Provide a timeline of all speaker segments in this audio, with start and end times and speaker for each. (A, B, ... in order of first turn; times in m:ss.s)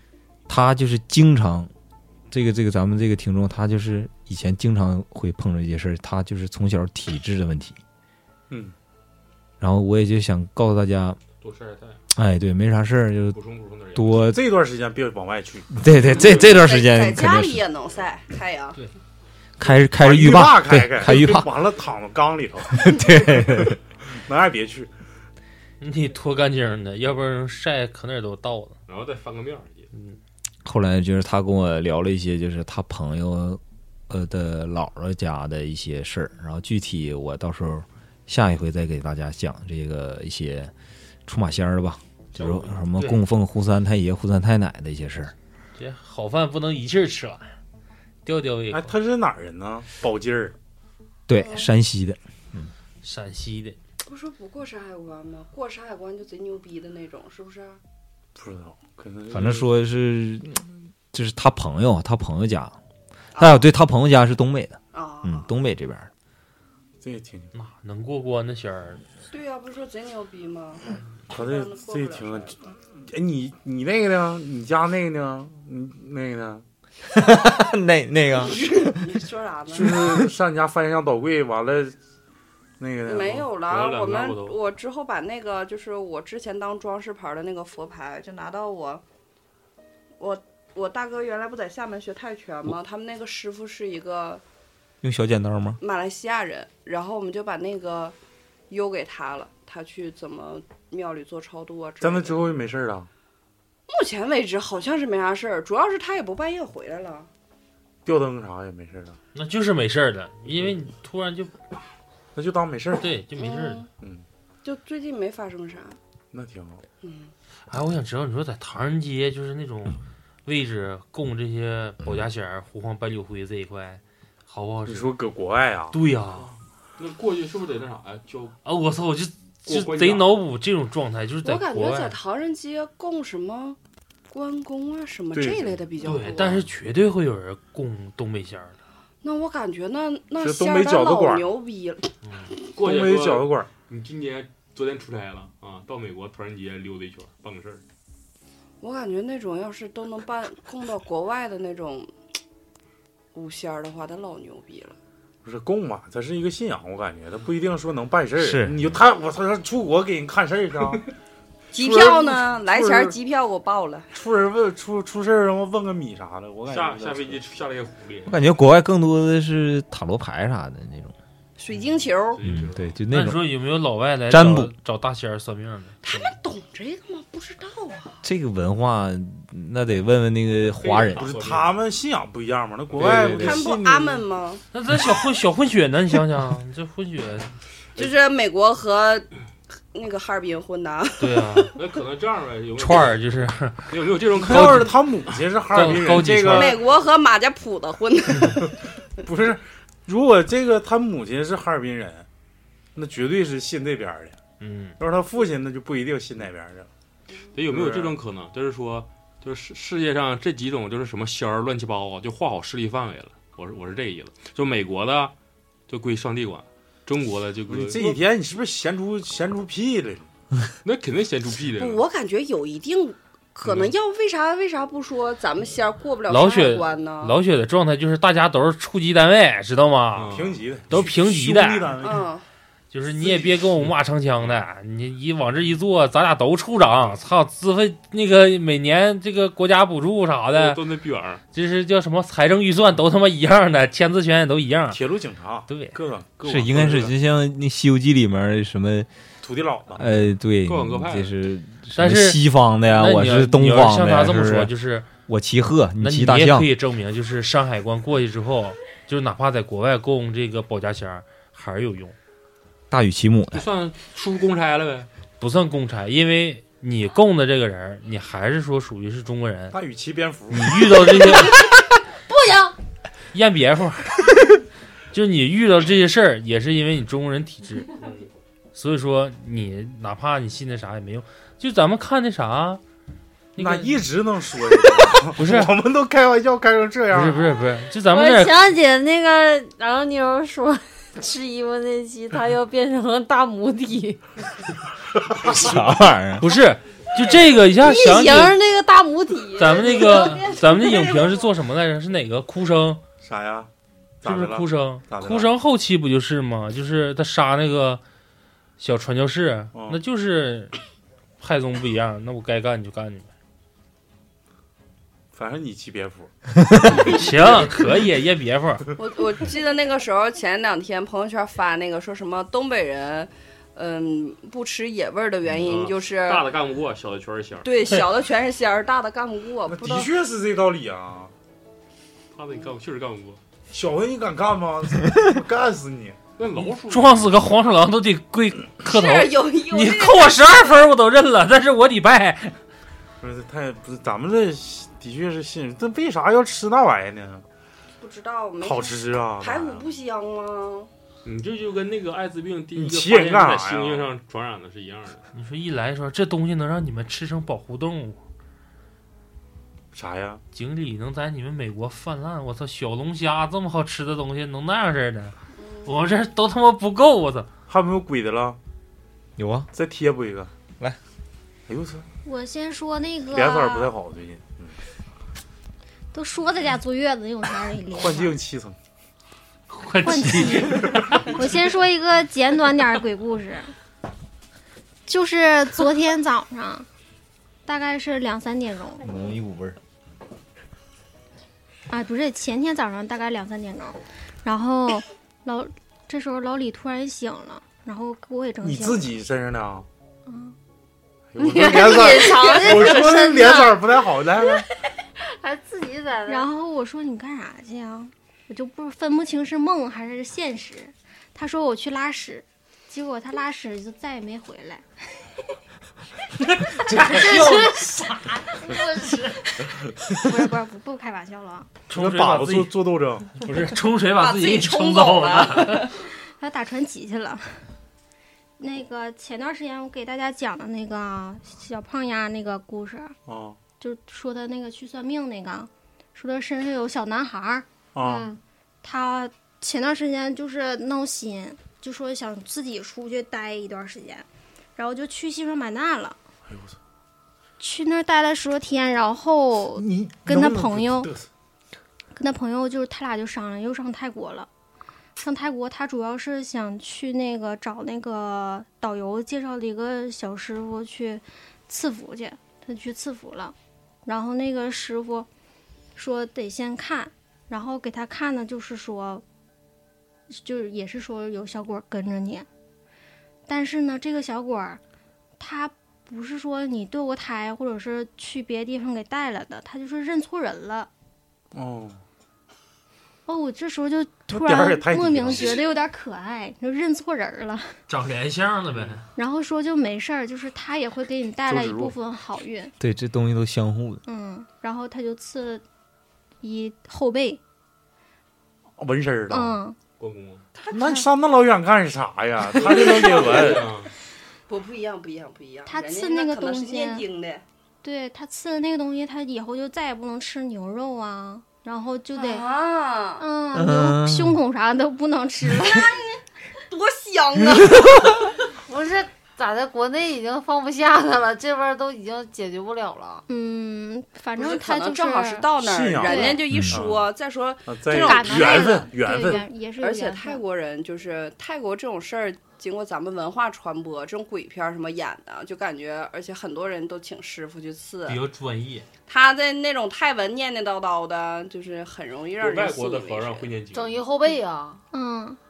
0:00.5-0:01.7 A
0:02.3-0:07.8 A
0:09.6-0:11.2 A
0:11.4-0:12.0 B
0:12.1-0:13.4 A
0:13.3-0:14.3 B
0:13.9-0:14.4 A
0:14.3-0:15.7 C
0:15.7-0:17.6 A
0:16.4-0:18.8 D
0:19.6-0:21.5 A
0:20.0-0:24.9 C
0:22.7-0:23.8 A
0:25.8-0:28.8 E
0:28.9-0:29.9 B
0:29.9-0:30.2 E
0:30.6-0:40.7 A
0:41.2-0:45.3 A
0:43.0-0:43.2 E
0:45.8-0:47.6 E
0:48.2-0:48.9 E
0:48.7-0:50.5 C
0:51.3-0:52.7 A
0:51.4-0:51.7 D
0:53.0-0:53.8 E
0:54.0-0:57.8 D
0:58.4-0:59.7 C
0:59.3-1:02.7 A
1:03.4-1:03.6 D
1:03.4-1:06.1 A
1:04.9-1:05.5 D
1:07.0-1:07.5 C
1:07.5-1:09.0 E
1:09.3-1:12.6 D
1:11.3-1:16.6 C
1:17.2-1:19.0 A
1:18.3-1:20.2 D
1:19.7-1:22.0 C
1:20.0-1:20.3 A
1:22.8-1:23.5 C
1:23.0-1:29.0 D
1:23.6-1:24.6 B
1:30.2-1:34.4 D
1:35.0-1:35.8 A
1:35.8-1:38.1 D
1:38.7-1:42.4 D
1:42.0-1:43.1 C
1:43.9-1:47.3 D
1:48.0-1:49.2 C
1:49.3-1:51.6 E
1:52.3-1:53.1 C
1:53.0-1:53.8 E
1:53.4-1:53.9 D
1:54.6-1:56.0 D
1:56.3-1:56.8 C
1:57.0-1:57.3 D
1:57.7-2:05.1 E
2:04.8-2:06.0 C
2:05.9-2:06.5 E
2:06.4-2:08.6 B
2:08.6-2:12.2 E
2:09.6-2:10.4 B
2:11.4-2:13.8 D
2:14.3-2:16.6 D
2:15.3-2:16.6 C
2:16.0-2:18.8 E
2:19.2-2:22.1 D
2:20.4-2:21.5 C
2:22.7-2:27.8 B
2:22.8-2:23.7 C
2:28.8-2:32.1 D
2:33.3-2:35.0 D
2:35.4-2:41.0 C
2:38.4-2:38.8 A
2:41.7-2:44.1 D
2:41.7-2:43.1 C
2:44.1-2:47.4 C
2:46.7-2:48.4 B
2:48.2-2:51.1 A
2:51.6-2:52.4 D
2:51.7-2:53.0 B
2:52.4-2:53.4 A
2:53.1-2:56.3 E
2:54.3-2:54.7 A
2:56.0-2:58.2 D
2:58.2-3:01.3 A
3:00.6-3:01.7 B
3:01.1-3:04.2 C
3:03.0-3:03.6 A
3:03.0-3:04.6 D
3:04.7-3:07.6 E
3:08.0-3:09.3 D
3:09.9-3:11.7 D
3:11.2-3:11.7 E
3:11.8-3:13.2 B
3:12.8-3:13.9 E
3:13.9-3:15.4 B
3:14.3-3:16.8 C
3:14.4-3:14.9 E
3:15.7-3:16.7 E
3:16.5-3:18.7 D
3:19.2-3:22.3 C
3:22.9-3:24.4 C
3:24.6-3:25.0 E
3:25.0-3:26.9 C
3:27.5-3:35.3 B
3:27.7-3:28.2 C
3:35.9-3:38.2 B
3:37.7-3:40.3 C
3:40.8-3:42.0 B
3:41.8-3:47.4 D
3:43.6-3:43.9 B
3:46.3-3:52.0 E
3:50.1-3:50.6 B
3:50.3-3:52.3 C
3:52.0-3:52.4 D
3:52.9-4:00.8 E
4:00.5-4:01.4 B
4:01.5-4:05.0 E
4:04.9-4:07.1 C
4:05.7-4:06.0 E
4:06.4-4:09.1 A
4:06.8-4:07.0 B
4:09.4-4:10.2 C
4:09.9-4:14.7 A
4:10.6-4:11.4 B
4:12.0-4:15.1 E
4:15.3-4:16.7 A
4:16.0-4:22.2 E
4:22.9-4:23.6 A
4:23.5-4:25.1 B
4:25.4-4:29.8 E
4:29.7-4:31.2 C
4:30.5-4:31.6 E
4:31.4-4:31.7 F
4:32.3-4:32.7 F
4:33.3-4:34.2 E
4:35.1-4:37.9 E
4:38.0-4:38.3 B
4:38.7-4:42.8 E
4:43.6-4:44.0 E
4:43.6-4:47.5 C
4:45.3-4:45.7 E
4:47.1-4:48.6 E
4:48.1-4:54.2 F
4:55.2-4:55.9 C
4:55.5-4:56.4 A
4:56.4-4:58.6 E
4:57.8-5:01.3 F
4:59.6-5:03.0 E
4:59.7-5:01.2 D
5:03.2-5:03.7 C
5:04.2-5:05.5 C
5:04.2-5:08.0 E
5:08.8-5:10.7 E
5:09.7-5:10.0 C
5:11.4-5:13.3 E
5:15.3-5:16.3 C
5:16.9-5:17.6 C
5:17.0-5:18.8 E
5:19.0-5:26.5 D
5:25.5-5:27.7 B
5:27.6-5:30.1 D
5:29.7-5:31.3 C
5:32.3-5:33.4 B
5:33.7-5:36.2 C
5:36.4-5:37.2 B
5:36.9-5:42.6 E
5:38.8-5:40.8 D
5:43.2-5:47.4 C
5:48.0-5:50.9 D
5:48.6-5:49.9 C
5:51.2-5:55.2 B
5:52.7-5:54.1 C
5:55.3-5:58.2 E
5:59.9-6:00.4 C
6:00.5-6:07.5 E
6:05.6-6:05.9 D
6:07.7-6:08.6 C
6:09.4-6:09.7 A
6:09.7-6:10.5 C
6:11.7-6:12.0 C
6:12.2-6:13.9 G
6:13.3-6:14.8 C
6:16.1-6:18.4 G
6:17.9-6:18.8 C
6:19.7-6:21.2 E
6:20.0-6:23.7 G
6:25.0-6:26.9 G
6:27.6-6:29.1 G
6:29.0-6:29.8 A
6:31.9-6:39.1 G
6:38.6-6:39.8 C
6:40.2-6:40.5 G
6:41.3-6:44.6 C
6:41.4-6:43.5 F
6:41.6-6:43.8 G
6:45.3-6:46.5 F
6:46.2-6:54.8 G
6:56.6-6:58.2 E
6:56.9-6:57.7 G
6:57.1-6:59.2 F
7:00.1-7:01.7 G
7:01.9-7:02.8 E
7:01.9-7:03.3 C
7:03.3-7:05.8 E
7:04.2-7:05.9 D
7:06.3-7:07.4 G
7:08.6-7:13.1 G
7:13.2-7:13.6 C
7:13.8-7:17.6 G
7:17.9-7:18.3 C
7:18.0-7:18.4 F
7:18.8-7:26.2 G
7:26.5-7:26.8 C
7:27.6-7:31.1 G
7:29.8-7:31.3 C
7:32.2-7:34.5 G
7:35.2-7:45.3 G
7:46.0-7:49.2 G
7:50.3-7:52.5 G
7:53.5-7:54.8 G
7:55.4-8:00.9 G
8:01.5-8:02.0 C
8:03.2-8:07.8 G
8:04.3-8:05.6 C
8:07.9-8:09.0 E
8:09.2-8:12.7 G
8:11.5-8:11.9 C
8:12.8-8:14.0 A
8:14.0-8:15.6 G
8:16.4-8:17.4 G
8:18.8-8:19.6 C
8:19.3-8:19.8 G
8:20.0-8:20.4 B
8:20.7-8:23.7 C
8:22.6-8:23.9 B
8:22.6-8:23.7 D
8:24.5-8:27.4 D
8:25.6-8:27.0 G
8:27.8-8:32.5 G
8:32.1-8:33.2 D
8:33.2-8:36.1 G
8:33.5-8:34.4 A
8:36.7-8:38.4 D
8:38.6-8:43.2 F
8:43.3-8:46.4 G
8:44.4-8:48.8 D
8:45.6-8:47.0 C
8:46.5-8:46.8 A
8:47.7-8:49.4 C
8:47.9-8:50.4 G
8:49.8-8:58.2 D
8:58.0-8:58.8 E
8:59.1-9:03.5 D
9:02.4-9:04.0 B
9:03.7-9:04.8 F
9:04.9-9:05.4 G